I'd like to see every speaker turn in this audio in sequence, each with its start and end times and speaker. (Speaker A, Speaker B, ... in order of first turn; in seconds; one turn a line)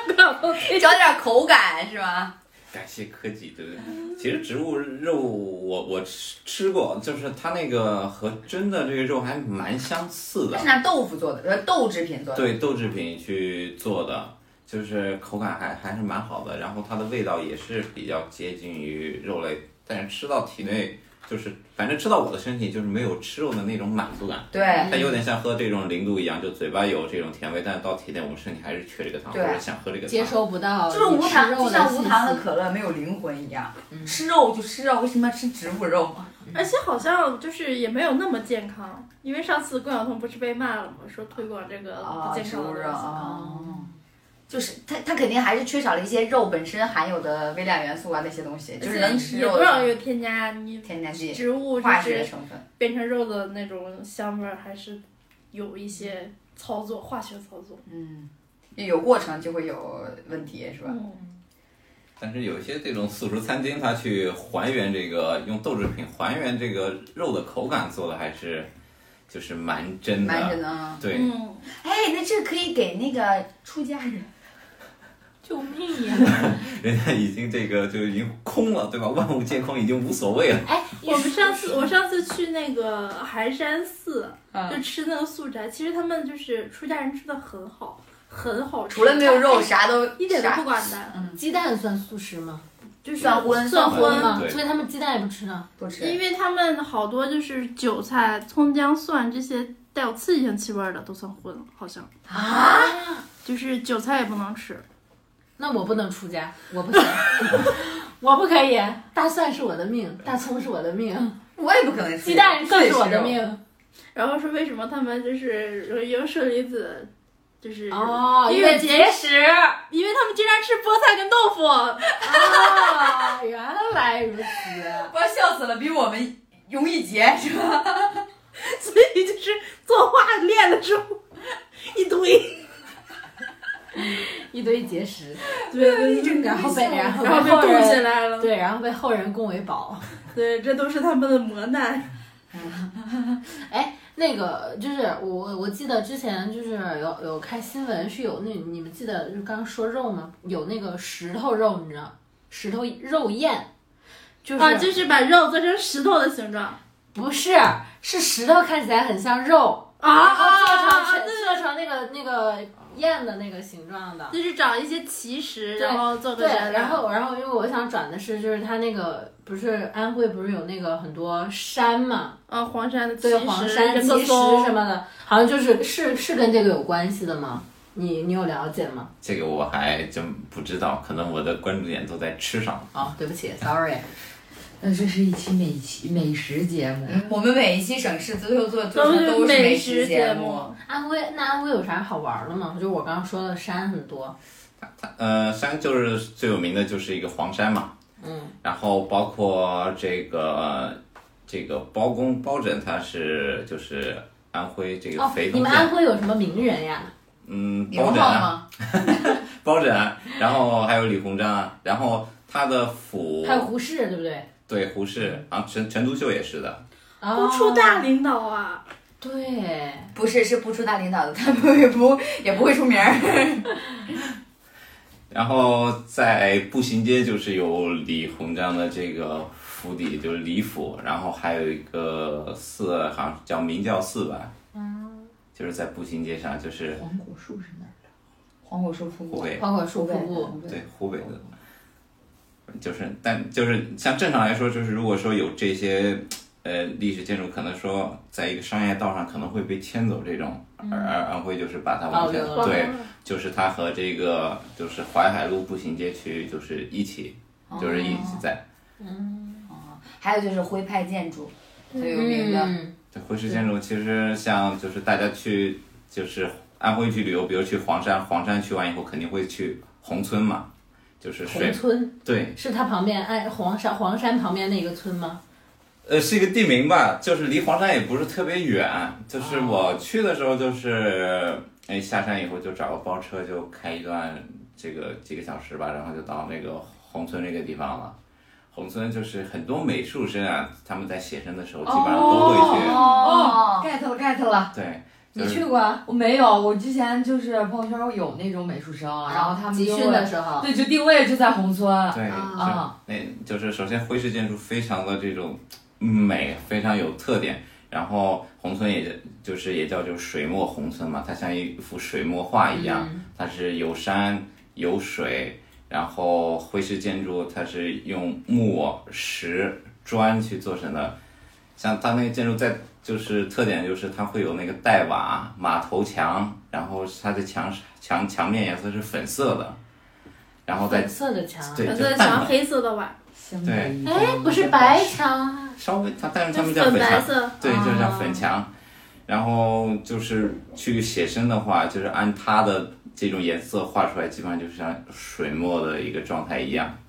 Speaker A: 0.5-0.8
Speaker B: 0.5-2.3
Speaker C: 2.7-10.7
Speaker B: 10.5-12.6
Speaker C: 12.3-30.4
Speaker B: 24.5-25.1
Speaker D: 24.8-25.2
Speaker B: 29.3-29.6
Speaker D: 30.1-32.5
Speaker B: 30.9-36.4
Speaker A: 36.5-43.2
Speaker B: 42.0-43.9
Speaker D: 43.2-43.9
Speaker B: 44.5-49.9
Speaker A: 48.8-55.0
Speaker B: 50.9-52.6
Speaker A: 55.5-57.8
Speaker B: 57.9-61.0
Speaker A: 60.9-61.2
Speaker C: 62.2-68.7
Speaker C: 69.3-71.3
Speaker B: 70.2-71.0
Speaker A: 71.1-71.7
Speaker B: 71.7-74.3
Speaker D: 75.4-76.6
Speaker C: 76.2-80.7
Speaker D: 80.7-81.9
Speaker A: 81.0-91.2
Speaker B: 84.5-84.8
Speaker B: 88.9-91.4
Speaker D: 91.3-92.7
Speaker B: 93.0-94.3
Speaker A: 93.2-94.4
Speaker C: 93.9-94.6
Speaker D: 94.0-95.7
Speaker B: 95.8-96.2
Speaker A: 96.0-102.1
Speaker B: 102.3-103.0
Speaker D: 102.3-103.2
Speaker A: 103.5-104.8
Speaker D: 105.6-111.4
Speaker B: 111.6-113.4
Speaker D: 112.2-113.6
Speaker A: 114.2-117.1
Speaker A: 117.6-119.2
Speaker D: 117.9-119.8
Speaker A: 119.9-122.2
Speaker D: 122.2-125.1
Speaker B: 122.2-123.3
Speaker B: 125.0-128.3
Speaker A: 128.6-131.2
Speaker A: 131.8-132.7
Speaker D: 134.1-135.4
Speaker B: 135.6-137.3
Speaker A: 135.7-138.5
Speaker D: 136.3-140.1
Speaker A: 140.3-142.1
Speaker B: 142.5-143.4
Speaker D: 143.7-153.7
Speaker D: 154.4-154.9
Speaker A: 154.6-156.8
Speaker D: 157.1-164.4
Speaker A: 160.0-161.6
Speaker A: 164.3-167.0
Speaker D: 165.8-172.4
Speaker A: 172.5-174.8
Speaker D: 173.2-179.1
Speaker C: 179.2-182.9
Speaker D: 182.9-184.1
Speaker E: 184.8-187.3
Speaker B: 187.1-190.7
Speaker A: 188.9-190.8
Speaker D: 190.8-194.3
Speaker C: 194.8-197.9
Speaker D: 198.2-198.5
Speaker C: 198.6-205.9
Speaker D: 205.2-207.1
Speaker C: 207.4-213.7
Speaker B: 207.9-208.6
Speaker D: 213.4-214.5
Speaker C: 214.7-216.8
Speaker D: 217.2-218.1
Speaker A: 217.3-218.8
Speaker D: 219.2-220.1
Speaker B: 220.1-223.8
Speaker C: 225.3-234.5
Speaker D: 234.7-235.3
Speaker C: 235.6-237.0
Speaker E: 236.9-238.0
Speaker B: 238.7-240.8
Speaker C: 239.3-239.7
Speaker D: 239.6-240.6
Speaker C: 240.7-241.4
Speaker C: 242.7-258.6
Speaker D: 250.8-251.1
Speaker D: 252.1-252.8
Speaker A: 252.6-253.1
Speaker B: 257.7-258.4
Speaker D: 259.0-259.7
Speaker B: 259.7-262.8
Speaker D: 262.0-262.9
Speaker C: 263.1-270.7
Speaker C: 271.2-272.6
Speaker D: 271.5-275.4
Speaker C: 276.1-288.2
Speaker C: 288.7-293.0
Speaker E: 291.9-294.7
Speaker B: 292.2-293.9
Speaker D: 293.0-293.5
Speaker C: 294.7-295.7
Speaker D: 295.4-296.0
Speaker E: 296.0-302.9
Speaker D: 299.3-300.7
Speaker C: 302.1-321.1
Speaker D: 312.7-313.3
Speaker C: 321.8-329.8
Speaker C: 330.7-331.1
Speaker D: 330.7-332.0
Speaker C: 331.6-332.5
Speaker A: 331.9-333.2
Speaker E: 333.4-335.2
Speaker C: 333.6-333.9
Speaker D: 334.0-335.8
Speaker C: 335.8-338.7
Speaker A: 336.5-337.6
Speaker D: 337.6-338.4
Speaker C: 339.3-347.0